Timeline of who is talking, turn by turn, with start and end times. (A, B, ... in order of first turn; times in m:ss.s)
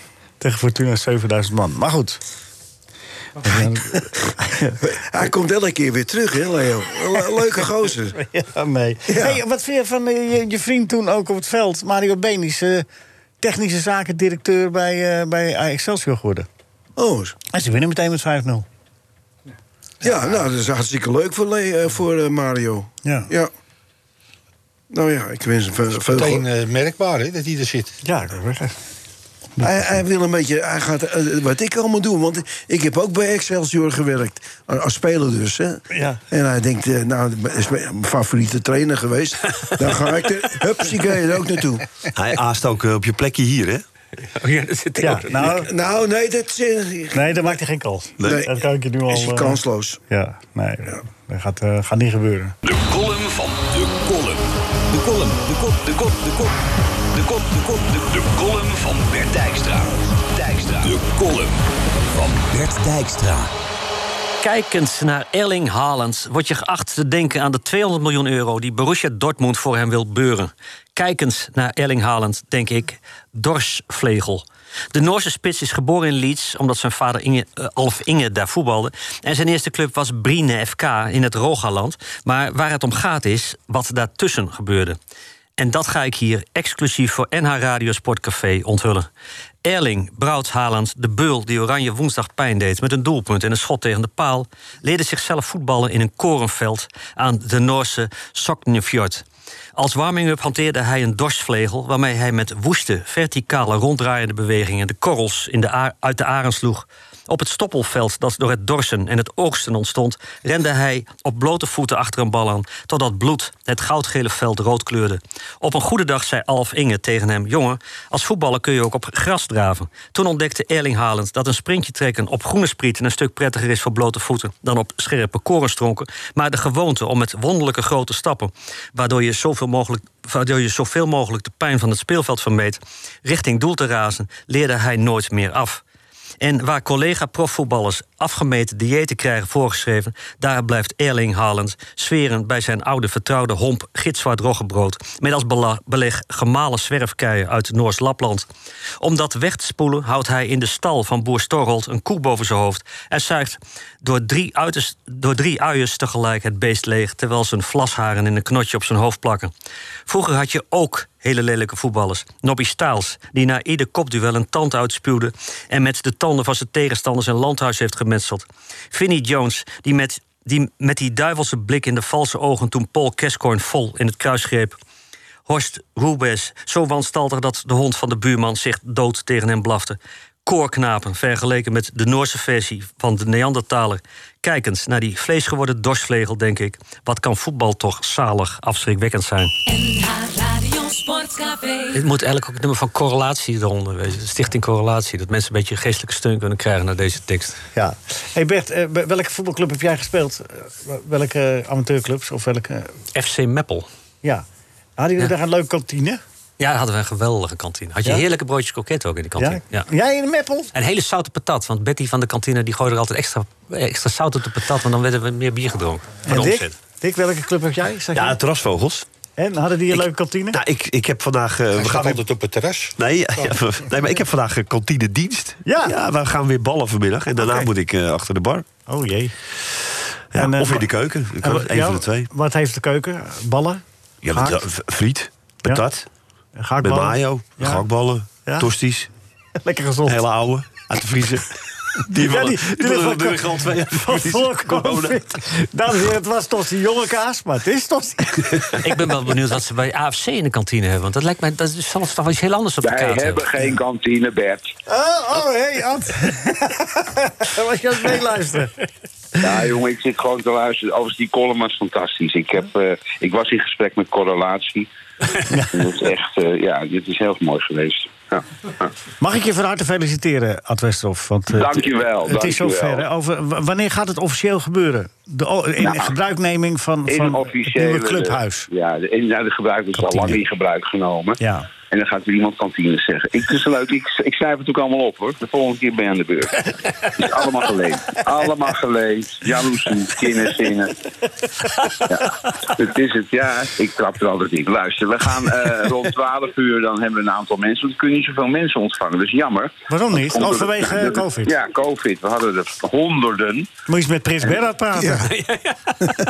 0:00.4-0:02.2 A
0:03.4-0:04.8 A
0:03.5-0:04.1 B
0:04.8-0:08.2 B
0:08.1-0:12.8 A
0:09.1-0:09.4 B
0:13.4-0:16.5 A
0:17.0-0:17.4 B
0:17.5-0:18.6 A
0:20.0-0:23.5 B
0:24.9-0:26.4 B
0:26.0-0:27.9 C
0:28.0-0:28.8 A
0:29.6-0:41.9 B
0:35.9-0:36.2 A
0:42.1-0:43.8 D
0:44.2-0:45.6 E
0:45.0-0:45.7 A
0:45.4-0:47.4 B
0:47.1-0:52.6 A
0:48.2-0:48.5 B
0:49.1-0:50.0 B
0:52.6-0:56.6 F
0:57.1-1:03.5 F
1:04.4-1:25.0 E
1:25.6-1:29.1 E
1:29.6-1:39.2 E
1:39.8-2:15.8 E
2:16.4-2:28.5 E
2:29.0-2:39.5 E
2:40.1-2:54.8 E
2:55.5-3:09.5 E
3:09.6-3:12.0 G
3:11.9-3:17.6 E
3:17.8-3:22.9 A
3:23.1-3:23.9 E
3:25.0-3:26.2 A
3:26.6-3:29.9 E
3:29.4-3:30.7 A
3:30.7-3:36.8 E
3:36.2-3:38.4 A
3:38.1-3:39.0 D
3:39.4-3:40.6 A
3:39.9-3:42.2 D
3:41.8-3:42.9 C
3:43.0-3:48.7 D
3:45.6-3:45.9 A
3:47.4-3:47.7 A
3:48.9-3:49.3 A
3:50.3-3:52.3 D
3:50.4-3:50.9 A
3:51.4-3:53.8 A
3:54.2-3:56.1 D
3:54.3-3:54.6 A
3:56.6-3:57.8 A
3:56.8-3:59.1 D
3:59.6-4:00.2 A
4:00.0-4:05.2 D
4:02.2-4:08.8 A
4:08.8-4:13.5 E
4:12.8-4:14.7 H
4:14.9-4:18.9 A
4:19.4-4:24.9 H
4:25.5-4:25.9 A
4:25.7-4:28.9 H
4:29.2-4:38.7 A
4:31.5-4:33.0 H
4:35.8-4:36.1 H
4:37.1-4:41.4 H
4:40.0-4:40.4 A
4:41.4-4:41.7 A
4:41.9-4:50.9 H
4:52.1-5:03.7 H
4:59.9-5:01.5 A
5:03.9-5:05.3 A
5:05.0-5:05.3 B
5:05.3-5:06.0 E